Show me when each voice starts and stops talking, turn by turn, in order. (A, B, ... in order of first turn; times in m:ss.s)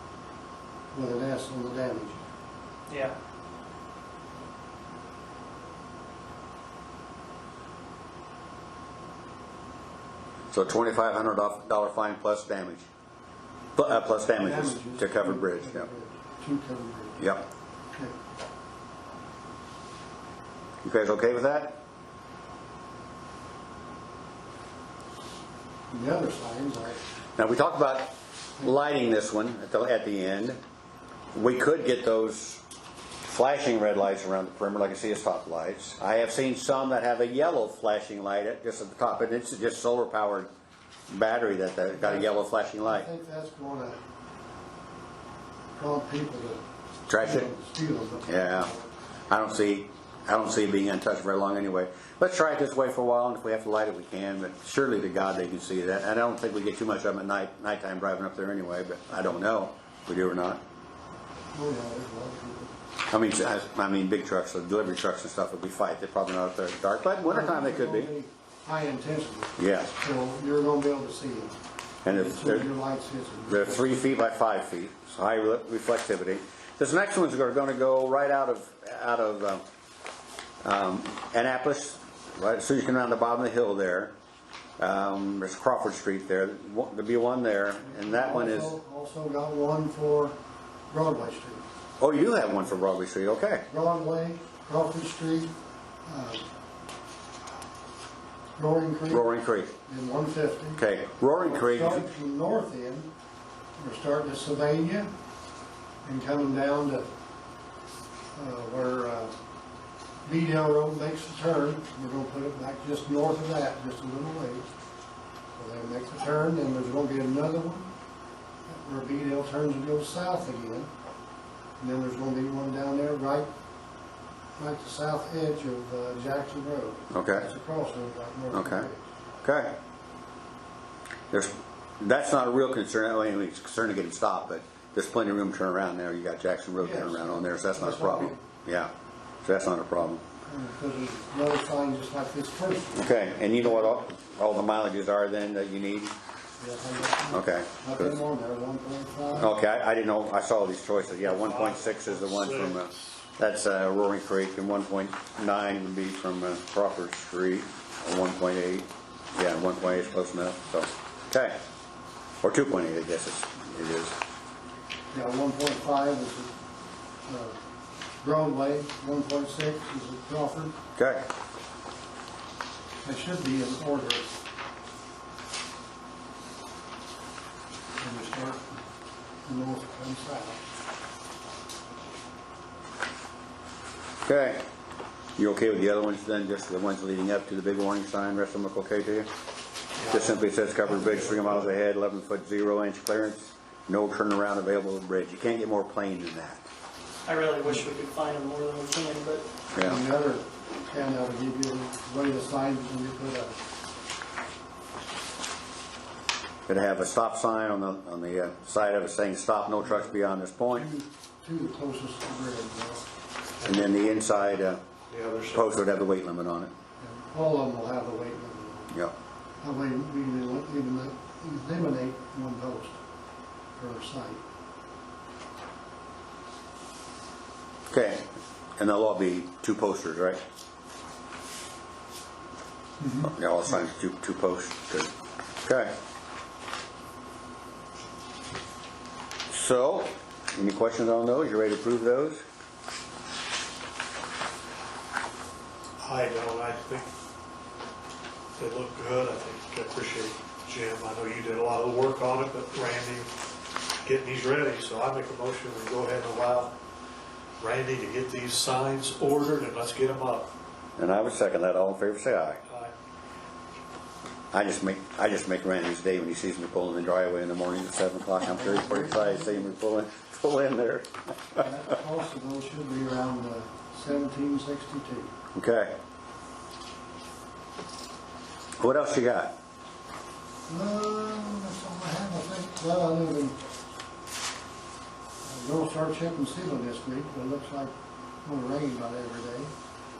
0:00.9-0:02.2 A
0:02.9-0:03.1 B
0:10.5-0:12.8 C
0:13.8-0:15.9 C
0:14.4-0:17.2 A
0:17.2-0:17.4 C
0:20.8-0:21.8 C
0:25.9-0:27.0 A
0:27.4-0:30.6 C
0:31.3-0:32.6 C
0:33.2-0:40.5 C
0:41.1-0:43.1 C
0:42.0-0:44.0 A
0:45.7-0:46.6 A
0:47.1-0:47.5 C
0:47.1-0:48.9 A
0:48.3-0:48.7 C
0:49.3-1:00.6 C
1:01.5-1:02.7 A
1:03.1-1:08.1 C
1:07.2-1:14.0 A
1:09.6-1:09.9 C
1:12.0-1:12.7 C
1:13.5-1:19.6 C
1:20.6-1:24.1 C
1:24.8-1:28.8 C
1:27.8-1:30.3 A
1:30.9-1:31.6 A
1:32.0-1:33.6 C
1:33.7-1:35.5 A
1:36.0-1:36.4 A
1:38.6-1:40.8 A
1:39.1-1:39.7 C
1:40.8-1:42.1 C
1:41.3-1:43.1 A
1:43.8-1:45.1 A
1:46.0-1:47.1 A
1:48.3-1:49.3 A
1:50.2-1:54.6 A
1:55.5-1:57.9 A
1:58.7-2:00.9 A
2:01.8-2:03.5 A
2:04.6-2:09.0 A
2:07.1-2:07.5 C
2:08.5-2:08.9 C
2:09.4-2:09.8 C
2:11.3-2:18.9 C
2:16.8-2:18.4 A
2:19.4-2:20.2 C
2:20.5-2:24.0 A
2:22.9-2:26.1 C
2:26.6-2:29.5 A
2:27.3-2:28.2 C
2:29.4-2:41.6 C
2:31.2-2:33.2 D
2:42.4-2:44.1 C
2:45.1-2:46.5 A
2:47.2-2:47.6 A
2:48.2-2:50.8 A
2:51.0-2:51.2 C
2:53.0-2:54.4 A
2:58.0-2:58.8 A
2:59.4-3:00.6 A
3:04.2-3:04.6 C
3:05.4-3:09.3 C
3:10.0-3:10.4 D
3:10.1-3:16.6 C
3:11.0-3:11.6 D
3:17.2-3:19.4 B
3:19.7-3:20.0 C
3:19.8-3:23.5 A
3:26.7-3:30.9 C
3:29.8-3:30.2 A
3:30.7-3:33.0 A
3:33.6-3:33.9 D
3:33.6-3:34.8 C
3:35.1-3:35.7 D
3:35.5-3:36.7 C
3:37.0-3:39.0 A
3:39.6-3:43.0 A
3:43.8-3:44.4 A
3:47.9-3:48.3 C
3:48.8-3:50.4 C
3:53.0-3:53.3 A
3:53.2-3:55.1 C
3:55.6-3:56.0 C
3:59.5-4:02.4 C
4:06.0-4:07.1 D
4:08.6-4:13.3 D
4:14.0-4:16.7 D
4:17.6-4:20.5 D
4:21.0-4:22.6 C
4:22.6-4:22.9 D
4:24.5-4:31.7 C
4:28.4-4:29.7 A
4:31.6-4:35.3 A
4:35.5-4:36.0 C
4:38.8-4:39.5 C
4:40.7-4:43.6 A
4:45.4-4:47.9 A
4:48.4-4:49.7 A